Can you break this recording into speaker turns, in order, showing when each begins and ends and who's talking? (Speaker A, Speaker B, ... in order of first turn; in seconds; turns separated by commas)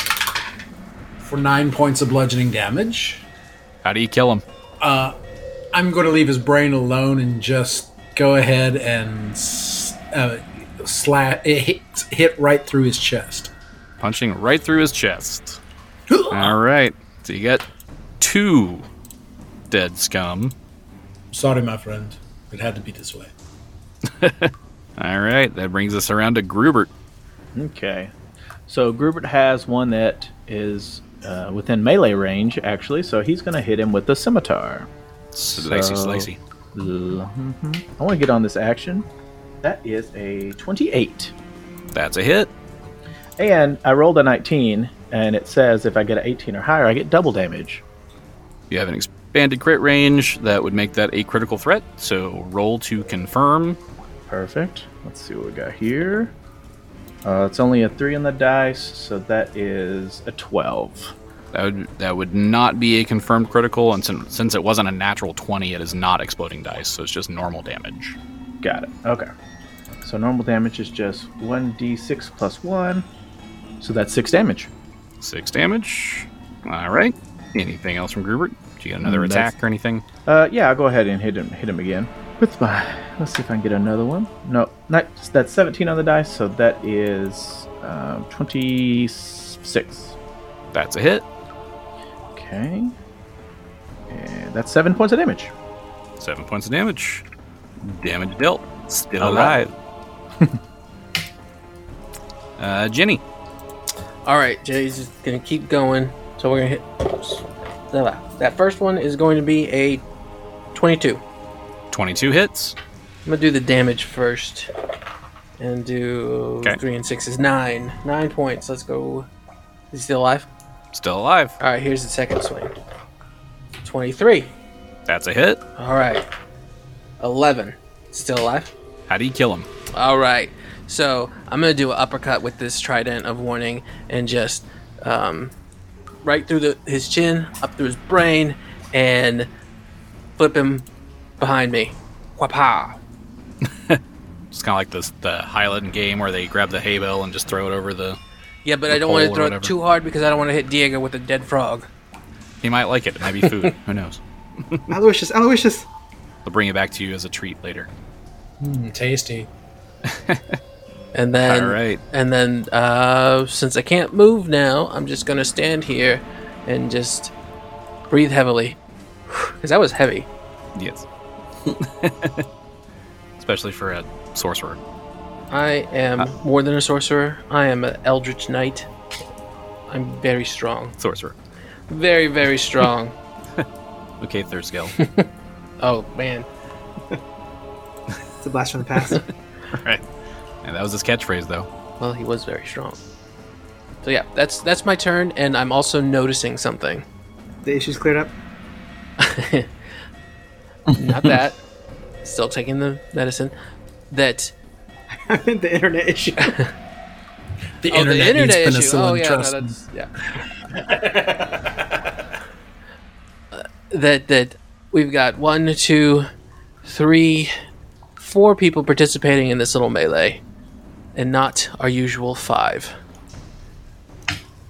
Speaker A: 1.2-3.2, Speaker B: 3.8-4.4, Speaker A: 4.8-5.2, Speaker A: 5.7-13.5, Speaker B: 14.0-15.6, Speaker A: 16.1-16.6, Speaker B: 16.3-17.6, Speaker B: 18.2-18.9, Speaker B: 19.7-20.6, Speaker A: 21.3-23.3, Speaker B: 24.1-26.9, Speaker C: 27.6-28.1, Speaker C: 28.7-34.9, Speaker B: 35.4-36.4, Speaker C: 35.5-39.1, Speaker C: 39.6-41.3, Speaker B: 41.9-42.5, Speaker C: 43.4-47.8, Speaker B: 48.7-53.8, Speaker C: 54.3-56.3, Speaker C: 57.2-61.1, Speaker B: 61.5-68.2, Speaker C: 68.6-69.3, Speaker C: 70.0-73.1, Speaker C: 73.8-74.7, Speaker B: 75.2-80.0, Speaker C: 79.0-79.5, Speaker C: 80.3-90.2, Speaker B: 90.7-91.2, Speaker C: 92.3-92.9, Speaker C: 94.1-95.5, Speaker B: 96.2-97.2, Speaker B: 97.8-99.7, Speaker C: 99.2-99.5, Speaker B: 102.6-103.2, Speaker D: 104.2-110.0, Speaker D: 110.7-111.2, Speaker B: 111.9-112.8, Speaker D: 113.3-114.7, Speaker D: 115.6-119.3, Speaker D: 119.9-120.5, Speaker B: 120.9-121.6, Speaker D: 121.6-122.7, Speaker D: 123.8-124.5, Speaker B: 125.1-125.6, Speaker D: 125.8-126.3, Speaker D: 127.2-128.7, Speaker B: 129.1-129.7, Speaker D: 129.9-135.5, Speaker D: 136.2-139.5, Speaker D: 140.4-140.9, Speaker D: 141.4-143.0, Speaker B: 143.7-144.0, Speaker B: 144.5-148.2, Speaker D: 148.6-151.9, Speaker B: 148.9-149.7, Speaker B: 152.6-154.9, Speaker E: 154.9-155.9, Speaker B: 156.4-157.9, Speaker A: 158.6-159.5, Speaker B: 160.1-160.6, Speaker D: 161.1-167.3, Speaker B: 161.4-162.0, Speaker D: 168.1-168.8, Speaker D: 169.3-170.3, Speaker B: 170.8-171.1, Speaker B: 171.7-172.5, Speaker B: 173.4-174.8, Speaker D: 175.5-178.9, Speaker D: 179.9-181.0, Speaker B: 181.0-181.3, Speaker D: 181.9-183.2, Speaker B: 184.2-185.0, Speaker D: 185.0-186.5, Speaker E: 188.4-189.2, Speaker B: 189.7-190.0, Speaker B: 190.6-191.7, Speaker D: 192.0-193.0, Speaker D: 194.0-197.1, Speaker E: 197.6-198.3, Speaker D: 199.2-199.9, Speaker D: 200.9-201.6, Speaker D: 202.2-203.6, Speaker D: 204.1-204.5, Speaker E: 205.1-206.6, Speaker D: 206.4-206.7, Speaker A: 207.8-209.8, Speaker D: 207.9-210.1, Speaker A: 210.3-211.7, Speaker D: 213.5-216.3, Speaker D: 216.8-217.5, Speaker D: 218.2-220.4, Speaker D: 221.2-223.0